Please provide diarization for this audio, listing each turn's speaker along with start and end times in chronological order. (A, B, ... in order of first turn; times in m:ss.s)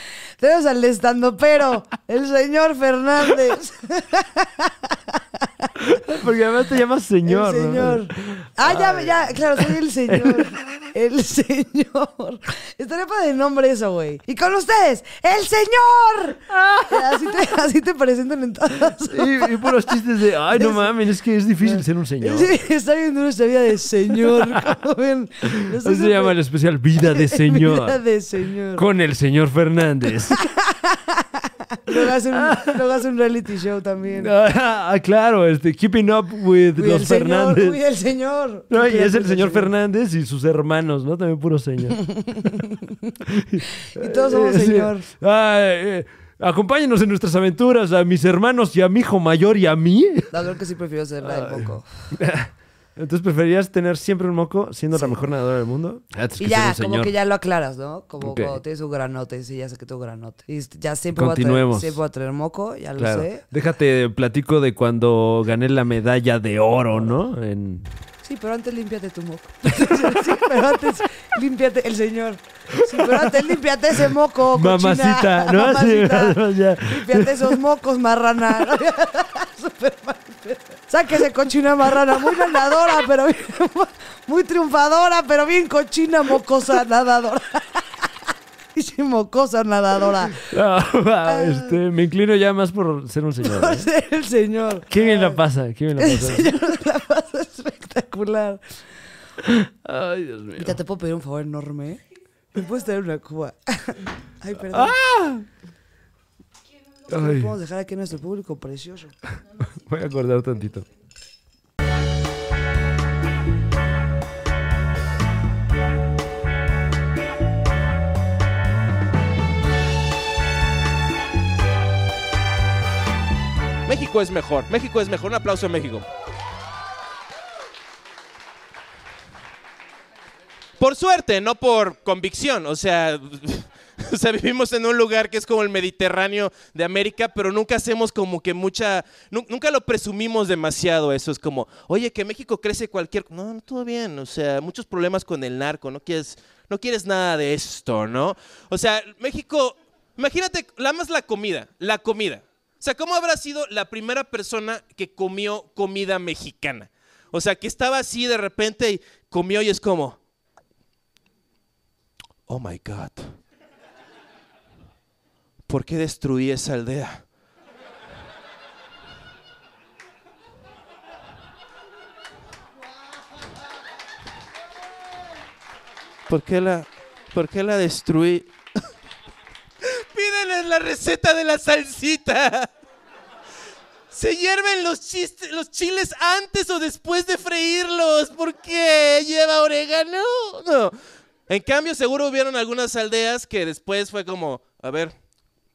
0:00.4-0:05.7 A
0:05.8-0:10.8 B
0:07.2-0:20.0 A
0:16.5-0:17.3 B
0:19.1-0:22.5 B
0:20.5-0:21.0 A
0:21.6-0:26.4 A
0:24.3-0:24.6 B
0:25.4-0:28.0 B
0:27.0-0:28.8 A
0:28.8-0:30.4 B
0:30.3-0:34.3 A
0:31.9-0:32.8 B
0:34.0-0:37.8 B
0:36.8-0:39.7 A
0:38.7-0:42.0 B
0:42.1-0:43.2 A
0:43.2-0:50.4 B
0:43.8-0:45.1 A
0:50.3-0:51.9 A
0:51.2-0:57.1 B
0:54.9-0:55.2 A
0:56.4-1:03.4 A
0:58.2-0:58.6 B
1:01.2-1:02.0 B
1:03.0-1:07.9 B
1:08.2-1:28.0 A
1:12.7-1:13.5 B
1:14.5-1:17.6 B
1:28.7-1:30.5 A
1:30.4-1:33.9 B
1:31.3-1:31.8 A
1:33.4-1:35.4 A
1:34.9-1:36.5 B
1:35.9-1:38.6 A
1:39.4-1:40.7 B
1:40.6-1:42.0 A
1:42.5-1:45.0 A
1:44.7-1:45.4 B
1:47.1-1:49.2 A
1:47.1-1:47.5 B
1:49.7-1:50.8 B
2:03.8-2:06.0 C
2:10.8-2:40.2 C
2:42.5-2:43.3 C
2:45.7-2:47.2 C
2:56.3-2:58.5 C
2:59.8-3:02.7 C
3:04.1-3:10.9 C
3:11.5-3:15.1 C